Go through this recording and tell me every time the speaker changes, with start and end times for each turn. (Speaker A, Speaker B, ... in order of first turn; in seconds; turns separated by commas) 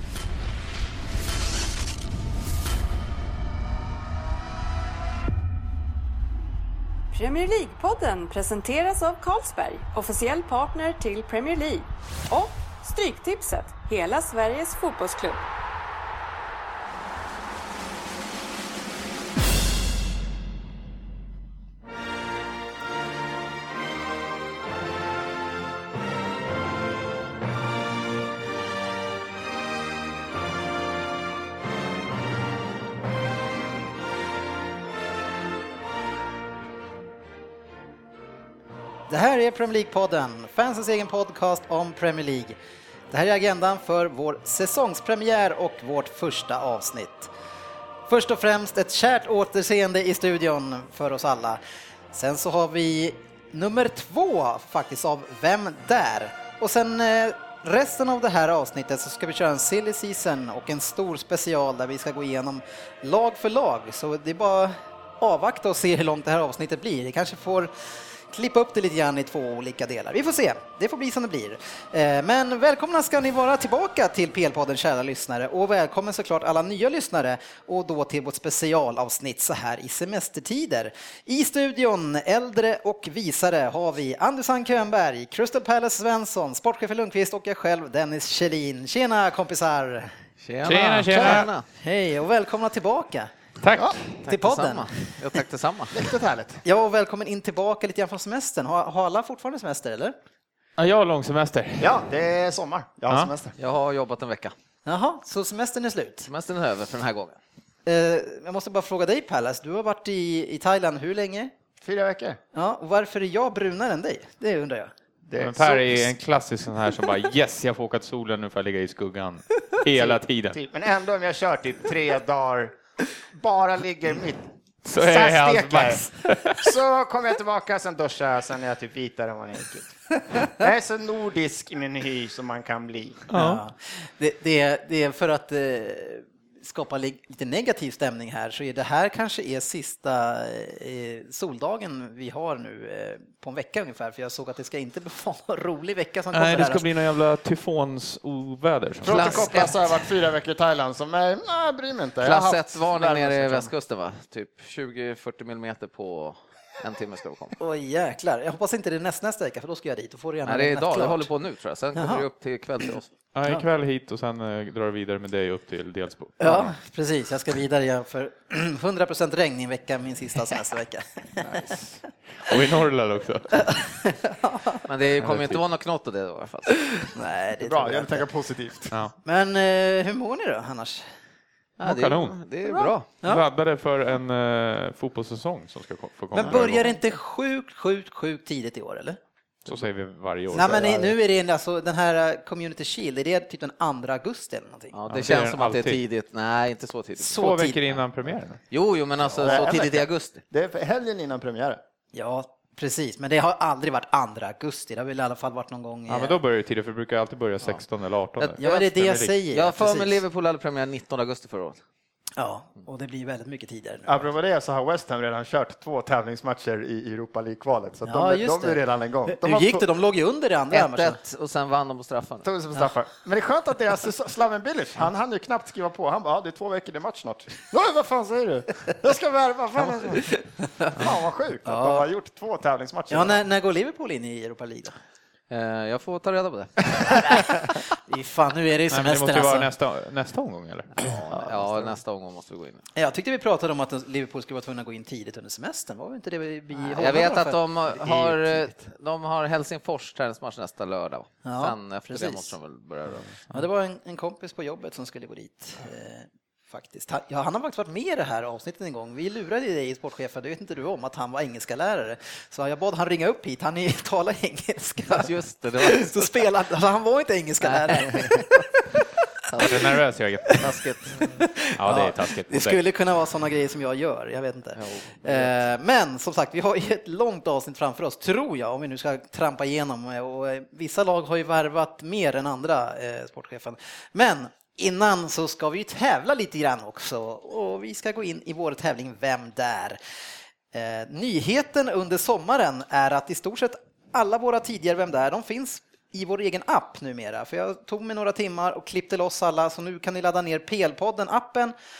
Speaker A: 7.1-15.4, Speaker B: 39.1-42.6, Speaker B: 43.1-47.3, Speaker B: 48.1-51.6, Speaker B: 52.1-67.7, Speaker B: 68.3-90.2, Speaker C: 90.4-91.7, Speaker D: 90.6-91.5, Speaker B: 91.1-93.3, Speaker D: 93.6-94.0, Speaker C: 94.2-96.0, Speaker B: 94.2-95.2, Speaker E: 95.9-96.6, Speaker B: 96.7-100.2, Speaker D: 100.8-102.0, Speaker E: 101.8-103.6, Speaker C: 103.6-104.5, Speaker B: 104.9-106.3, Speaker C: 106.3-107.4, Speaker B: 107.9-111.5, Speaker E: 111.8-112.4, Speaker B: 112.5-114.9, Speaker E: 115.3-116.1, Speaker D: 115.4-120.6, Speaker E: 119.9-122.8, Speaker E: 123.3-133.3, Speaker D: 124.8-126.8, Speaker D: 133.3-133.6, Speaker B: 133.3-146.9, Speaker D: 146.3-149.6, Speaker E: 149.0-153.7, Speaker C: 149.1-149.9, Speaker C: 152.2-157.6, Speaker B: 157.6-161.3, Speaker C: 160.4-163.1, Speaker B: 161.9-162.2, Speaker D: 163.3-166.7, Speaker B: 166.4-171.7, Speaker D: 171.4-173.7, Speaker B: 173.7-174.8, Speaker C: 174.9-177.1, Speaker D: 175.2-175.6, Speaker B: 177.1-178.3, Speaker E: 177.6-178.9, Speaker D: 178.9-179.2, Speaker B: 179.2-181.1, Speaker C: 181.8-183.0, Speaker D: 181.8-182.4, Speaker B: 182.7-183.4, Speaker D: 183.1-187.0, Speaker B: 186.3-189.2, Speaker D: 189.7-190.9, Speaker B: 190.5-195.0, Speaker E: 190.6-191.2, Speaker C: 194.9-197.4, Speaker D: 195.1-196.0, Speaker B: 197.2-197.8, Speaker D: 197.4-198.6, Speaker C: 198.7-200.4, Speaker E: 199.4-201.8, Speaker B: 202.1-206.4, Speaker D: 206.1-209.4, Speaker B: 208.4-210.2, Speaker C: 209.5-211.8, Speaker B: 212.4-214.2, Speaker E: 214.1-219.9, Speaker B: 218.1-221.2, Speaker C: 220.7-222.5, Speaker E: 222.4-233.4, Speaker B: 230.3-230.9, Speaker B: 231.7-232.1, Speaker B: 233.1-234.9, Speaker C: 235.5-237.5, Speaker B: 237.1-239.7, Speaker D: 238.9-241.1, Speaker C: 241.0-242.8, Speaker E: 241.4-241.8, Speaker B: 242.9-248.7, Speaker C: 246.8-253.3, Speaker B: 251.4-252.6, Speaker B: 253.5-269.2, Speaker C: 265.1-266.4, Speaker C: 267.6-268.6, Speaker C: 269.5-269.9, Speaker D: 269.6-270.7, Speaker B: 270.5-290.0, Speaker C: 270.6-271.3, Speaker D: 271.8-272.8, Speaker C: 274.8-275.6, Speaker B: 290.7-301.7